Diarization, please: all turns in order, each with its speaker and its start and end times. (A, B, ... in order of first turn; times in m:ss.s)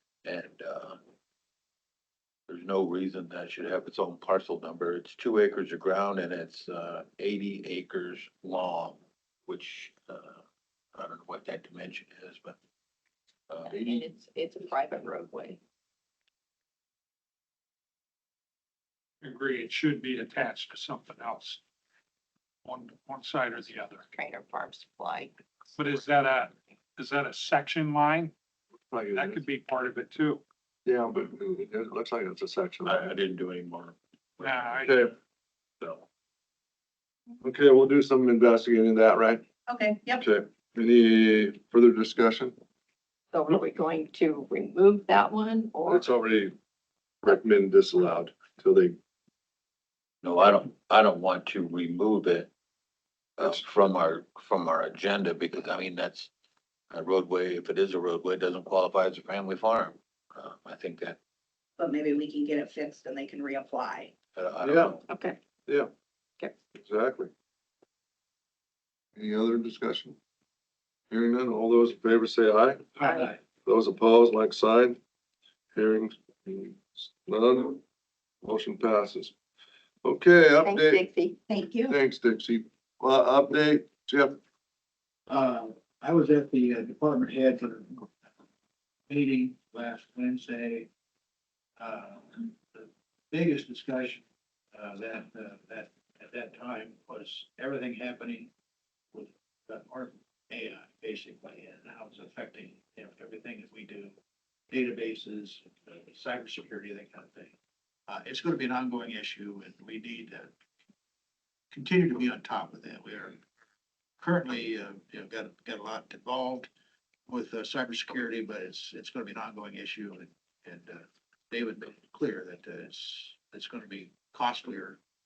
0:00.2-0:01.0 A
0:02.5-0:10.4 A
0:10.9-0:12.6 A
0:13.5-0:13.8 A
0:13.7-0:15.6 B
0:19.2-0:21.6 C
0:22.6-0:24.0 C
0:24.1-0:25.8 B
0:25.8-0:28.3 C
0:28.9-0:29.4 D
0:29.1-0:30.4 C
0:30.8-0:33.1 D
0:32.8-0:34.9 A
0:34.4-0:35.1 C
0:34.8-0:35.1 D
0:37.4-0:39.4 D
0:39.7-0:40.2 E
0:40.2-0:42.5 D
0:43.3-0:46.1 B
0:45.8-0:46.5 D
0:47.2-0:49.0 D
0:50.2-0:52.5 A
0:53.4-0:56.3 A
0:56.9-1:01.2 A
1:01.8-1:04.1 E
1:04.3-1:05.0 A
1:04.6-1:05.0 D
1:05.1-1:05.4 B
1:06.8-1:07.3 D
1:09.2-1:10.2 D
1:11.1-1:12.8 D
1:13.0-1:13.3 B
1:13.6-1:15.0 D
1:15.7-1:17.8 D
1:18.4-1:19.3 D
1:20.0-1:21.0 D
1:20.6-1:21.4 B
1:21.5-1:21.9 E
1:21.9-1:24.4 D
1:25.3-1:28.1 F
1:29.1-1:30.9 F
1:31.8-1:34.2 F
1:34.7-1:38.5 F
1:39.1-1:44.1 F
1:44.7-1:47.5 F
1:48.1-1:50.5 F
1:51.7-1:53.4 F
1:54.2-1:56.7 F
1:57.3-2:05.0 F